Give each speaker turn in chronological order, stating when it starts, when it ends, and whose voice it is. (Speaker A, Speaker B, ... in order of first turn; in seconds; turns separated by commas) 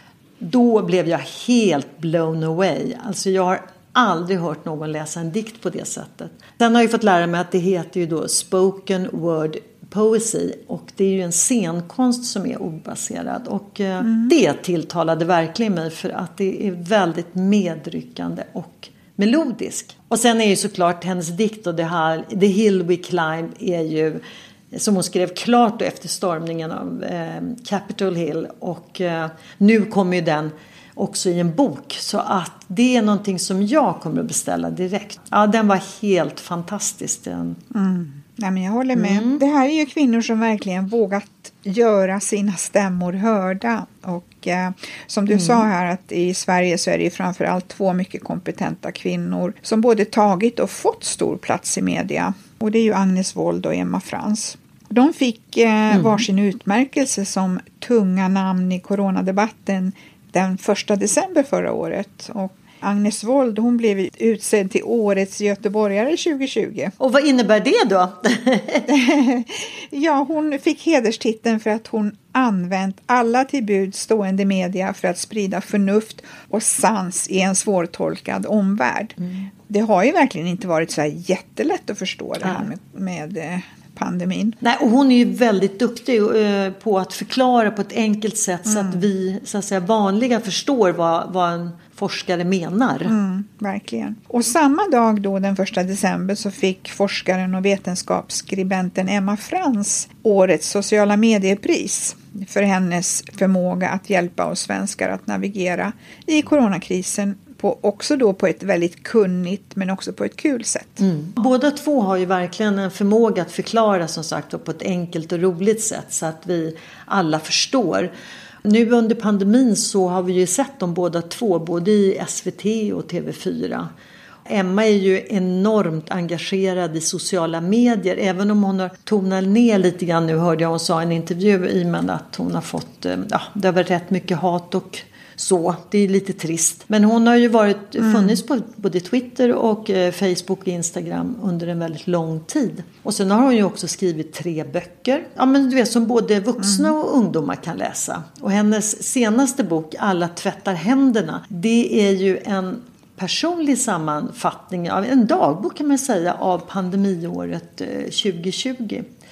Speaker A: 0.4-24.2, Speaker B: 14.0-14.3, Speaker A: 24.7-37.6, Speaker B: 37.7-66.9, Speaker A: 38.9-39.4, Speaker A: 45.3-45.6, Speaker A: 55.9-56.2, Speaker A: 67.0-68.9, Speaker B: 68.9-84.6, Speaker A: 79.2-79.5, Speaker A: 82.4-82.7, Speaker A: 84.6-93.1, Speaker B: 88.7-89.0, Speaker B: 93.1-111.0, Speaker A: 111.0-118.1, Speaker A: 118.6-123.9, Speaker A: 124.5-159.0, Speaker B: 138.0-138.4, Speaker B: 146.6-146.9